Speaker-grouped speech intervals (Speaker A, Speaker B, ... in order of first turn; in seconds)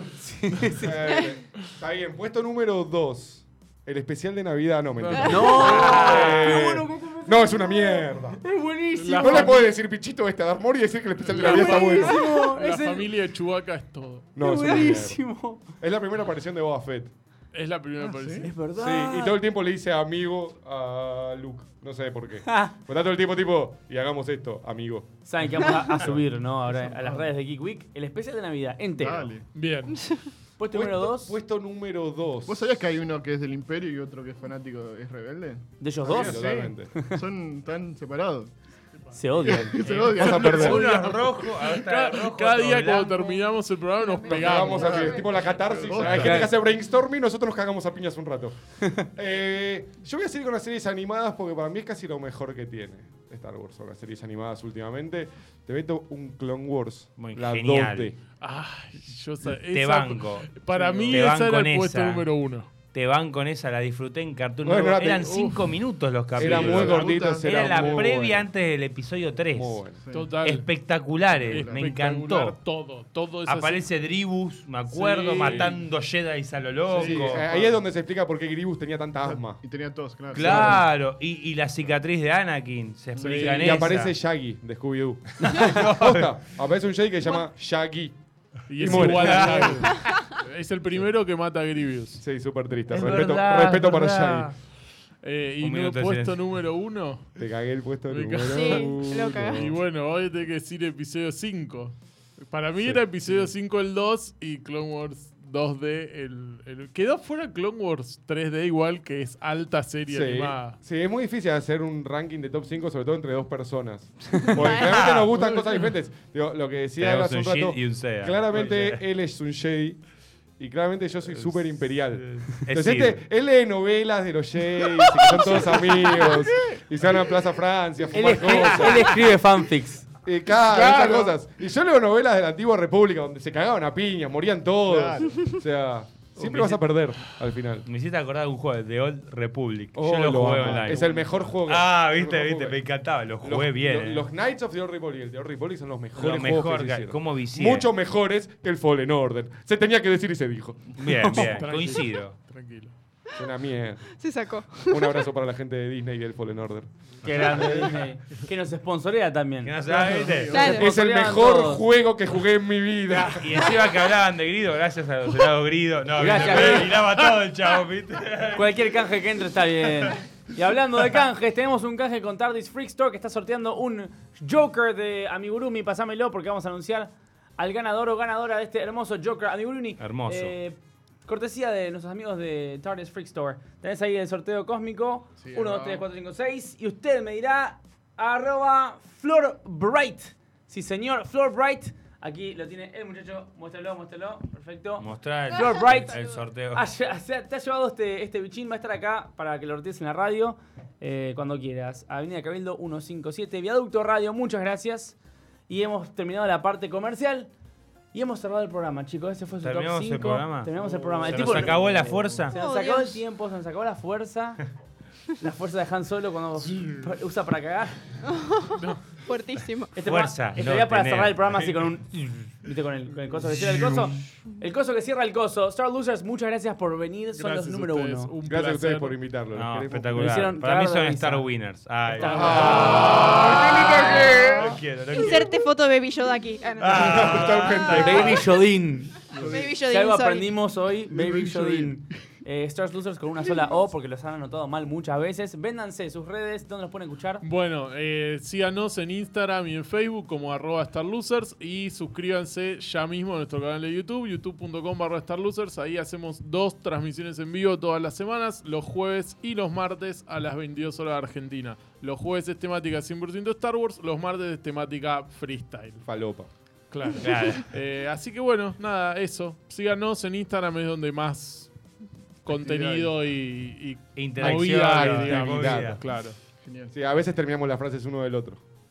Speaker A: 0.2-0.9, 5.3-9.7, 11.3-13.1, 14.4-15.6, 18.4-19.4, 22.5-22.8, 25.2-29.3, 30.6-31.4, 35.8-37.2, 39.1-40.0, 46.1-46.5, 128.1-130.1, 151.2-151.5, 157.2-160.0, 160.5-161.8, 166.2-167.0, 168.5-205.2, 205.7-207.5, 208.1-214.6, 215.4-218.0, 220.0-228.3, 230.2-231.5, 232.1-233.2, 237.9-239.2, 239.9-247.4
Speaker B: 0.8-8.4, 9.2-12.2, 14.4-17.1, 18.8-26.2, 30.7-32.6, 36.1-36.9, 40.2-40.8, 44.3-58.2, 64.6-65.5, 66.4-68.5, 69.5-70.0, 75.0-75.8, 77.0-79.6, 83.4-88.2, 88.8-89.8, 92.2-94.5, 97.4-99.8, 102.8-103.5, 110.1-120.0, 120.6-129.3, 130.2-137.9, 139.9-142.8, 143.4-150.9, 153.4-154.1, 154.8-156.9, 160.7-163.6, 228.4-230.3, 232.2-234.5, 236.8-238.4, 266.1-266.5, 274.4-276.0, 276.9-278.6
Speaker C: 1.0-1.4, 25.6-26.0, 29.9-30.3, 43.1-45.8, 89.8-90.4, 98.5-99.7, 114.5-115.1, 154.1-155.2, 160.5-160.9, 195.6-196.4, 212.5-213.2, 218.3-219.9, 233.4-234.4, 235.1-237.5, 239.5-240.5
Speaker D: 5.0-5.3, 8.9-9.7, 11.5-14.3, 17.5-18.5, 29.5-30.0, 40.4-46.4, 58.4-62.7, 65.2-65.6, 70.1-70.7, 71.5-73.9, 74.9-75.7, 83.2-83.9, 88.7-92.2, 95.2-97.3, 98.1-110.8, 151.3-152.9, 159.9-160.8, 166.4-167.1, 210.8-212.0, 218.8-219.1, 227.3-229.2, 232.5-233.3, 247.4-266.0, 266.9-271.7, 272.4-276.4
Speaker E: 5.6-6.5, 39.8-43.3, 57.2-58.2, 59.7-60.6, 61.1-62.3, 62.9-69.8, 70.4-72.6, 73.5-77.4, 80.3-84.1, 85.4-86.4, 88.8-90.0, 92.9-94.6, 95.6-96.5, 114.4-115.4, 117.0-119.0, 121.3-123.2, 137.8-144.3, 146.2-147.9, 151.0-152.4, 159.7-160.7, 163.1-168.9, 180.0-180.6, 195.0-196.8, 209.6-210.7, 211.2-212.6, 220.0-221.6, 229.6-235.6, 236.8-238.5, 267.2-267.7, 274.2-276.0
Speaker F: 18.0-18.5, 26.7-27.3, 29.0-29.5, 32.5-38.5, 39.4-41.0, 44.6-46.5, 60.7-61.2, 66.4-68.1, 70.0-70.4, 71.5-71.9, 76.9-77.8, 79.2-80.9, 83.2-83.8, 130.7-131.4, 134.9-135.5, 140.7-141.3, 185.4-186.1, 233.9-234.7, 239.4-239.8, 241.1-242.0, 272.5-273.1, 276.6-276.9